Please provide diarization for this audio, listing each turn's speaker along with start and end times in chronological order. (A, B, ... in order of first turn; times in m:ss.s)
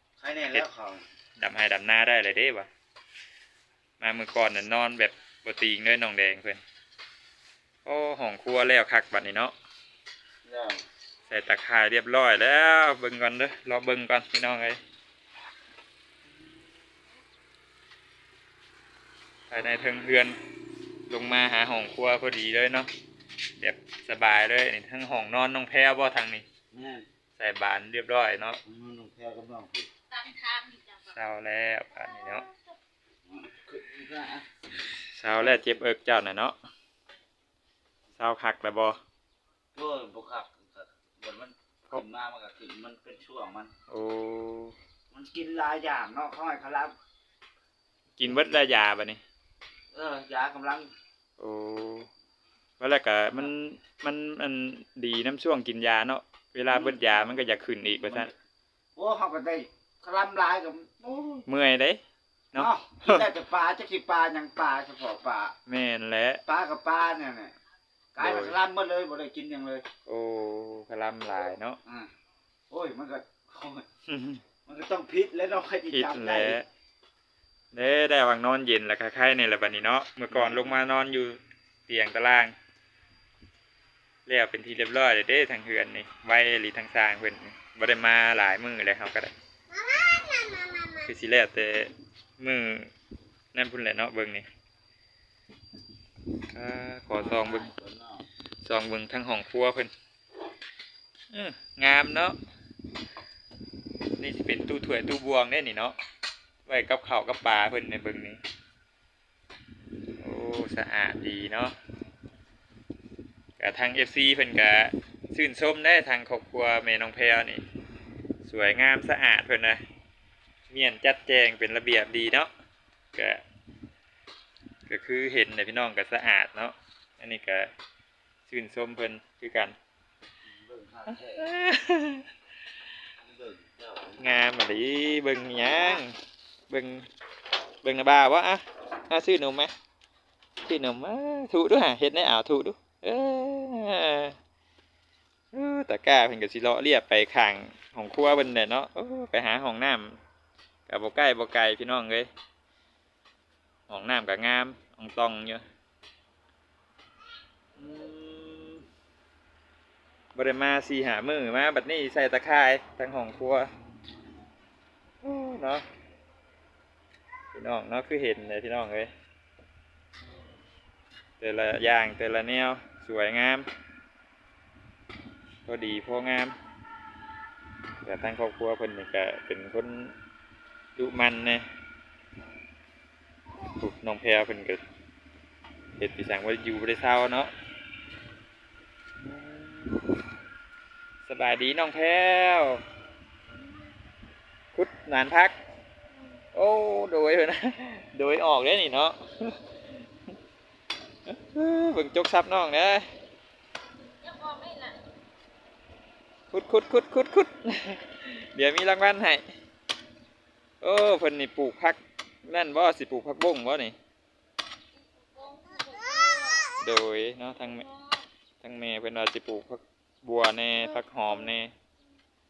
0:00.2-0:01.0 A
0:01.4-0:02.7 B
0:04.0-0:06.6 B
0:07.8-0:09.5 B
0:10.4-0:10.8 A
0:11.3-0:14.8 B
0:19.5-0:20.4 B
0:21.1-0:22.9 B
0:23.6-0:26.5 B
0:26.7-0:27.1 A
0:27.4-0:28.6 B
0:28.7-0:29.9 A
0:30.1-0:31.2 C
0:31.1-0:32.5 B
0:32.0-0:32.7 C
0:33.3-0:34.5 A
0:34.9-0:36.6 B
0:38.2-0:39.0 B
0:39.8-0:43.7 A
0:43.9-0:44.8 B
0:45.1-0:46.9 A
0:48.2-0:49.2 B
0:49.9-0:50.9 A
0:51.4-0:52.1 B
0:52.8-0:58.3 B
0:56.7-0:57.2 A
0:58.0-0:58.3 A
0:59.0-1:01.4 A
1:01.5-1:02.0 B
1:02.5-1:03.3 B
1:02.6-1:05.6 A
1:05.7-1:06.4 B
1:06.5-1:07.5 A
1:08.2-1:09.8 A
1:08.2-1:08.6 B
1:10.1-1:11.8 B
1:12.7-1:13.8 A
1:14.1-1:14.4 B
1:14.7-1:16.6 A
1:15.9-1:16.7 B
1:17.7-1:22.6 B
1:20.3-1:20.7 A
1:24.2-1:29.3 B
1:31.0-1:32.9 B
1:33.5-1:34.5 B
1:36.5-1:37.7 B
1:37.2-1:38.3 A
1:38.6-1:39.9 B
1:41.3-1:42.4 B
1:44.2-1:45.9 B
1:46.7-1:48.4 B
1:50.2-1:51.8 B
1:53.6-1:57.6 B
1:58.4-1:59.8 B
2:00.7-2:02.5 B
2:03.1-2:03.4 B
2:04.9-2:07.7 B
2:08.5-2:09.8 B
2:10.5-2:11.5 A
2:11.3-2:12.3 B
2:13.2-2:14.2 A
2:14.2-2:16.2 B
2:16.7-2:17.1 B
2:17.8-2:19.7 B
2:20.6-2:24.4 B
2:25.5-2:30.2 B
2:30.9-2:32.3 B
2:33.9-2:35.6 B
2:37.8-2:38.8 B
2:40.3-2:43.7 B
2:45.2-2:45.8 B
2:47.5-2:49.1 B
2:51.4-2:53.7 B
2:55.7-2:56.6 B
2:58.0-3:00.2 B
3:01.0-3:01.7 B
3:03.8-3:04.8 B
3:06.0-3:07.5 B
3:09.2-3:10.0 B
3:11.2-3:12.8 B
3:14.7-3:15.5 B
3:16.5-3:19.6 B
3:21.3-3:23.0 B
3:24.2-3:25.0 C
3:26.5-3:29.4 B
3:30.8-3:34.0 B
3:35.0-3:36.7 C
3:36.8-3:37.8 B
3:37.6-3:38.3 C
3:38.6-3:41.7 B